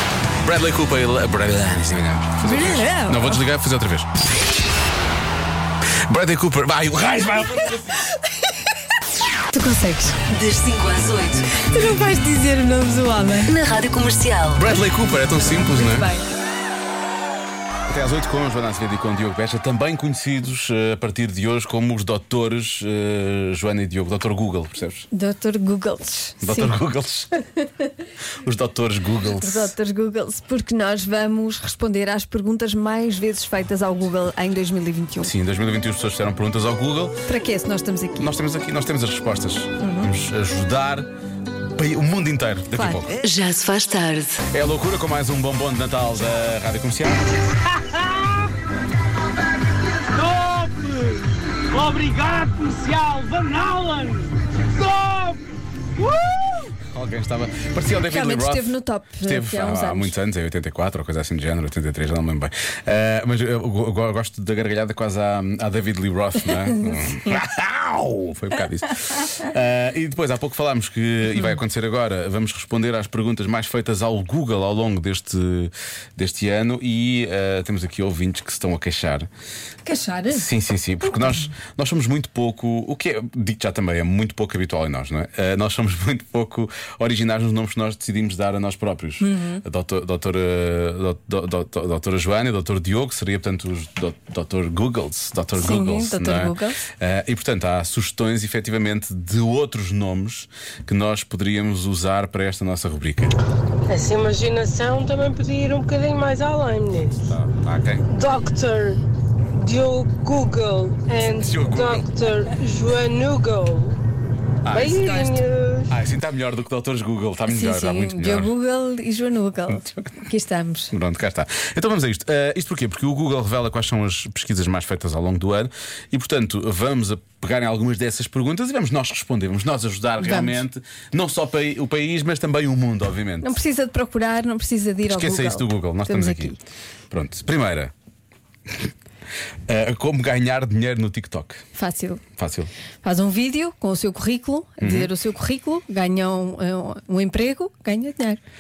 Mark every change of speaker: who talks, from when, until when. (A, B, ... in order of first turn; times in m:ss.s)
0:00.4-0:04.1 A
0:02.4-0:03.4 B
0:06.1-0:07.9 A
0:09.5-0:10.2 B
0:10.3-0:11.5 C
0:11.7-0:13.6 B
0:13.5-0:14.6 C
0:14.5-0:16.1 A
0:15.5-0:16.3 B
0:17.9-0:25.1 A
0:25.1-0:26.7 B
0:26.4-0:27.3 A
0:28.4-0:29.7 A
0:29.4-0:35.3 B
0:35.2-0:37.2 A
0:37.3-0:38.3 B
0:38.2-0:41.1 A
0:39.8-0:40.1 B
0:41.6-0:43.2 A
0:42.8-0:43.1 B
0:43.2-0:44.4 C
0:44.5-0:47.2 A
0:47.8-0:48.4 D
0:50.2-0:51.2 D
0:51.7-0:55.4 D
0:56.0-0:56.6 D
0:56.8-1:19.3 A
0:58.0-1:00.2 B
1:06.8-1:07.2 B
1:19.8-1:20.5 B
1:20.3-1:43.3 A
1:29.2-1:29.6 B
1:35.6-1:36.8 B
1:43.9-1:47.2 E
1:47.3-1:48.0 A
1:48.1-1:49.0 E
1:49.5-1:54.0 E
1:51.3-1:52.1 A
1:54.6-1:58.5 A
1:54.7-1:56.0 E
1:57.5-2:00.9 B
2:00.9-2:13.6 A
2:10.2-2:10.6 B
2:13.4-2:16.6 B
2:15.1-2:16.6 A
2:17.1-2:17.9 A
2:19.7-2:21.6 A
2:21.8-2:22.2 B
2:22.4-2:22.7 A
2:23.0-2:28.4 B
2:24.8-2:25.1 A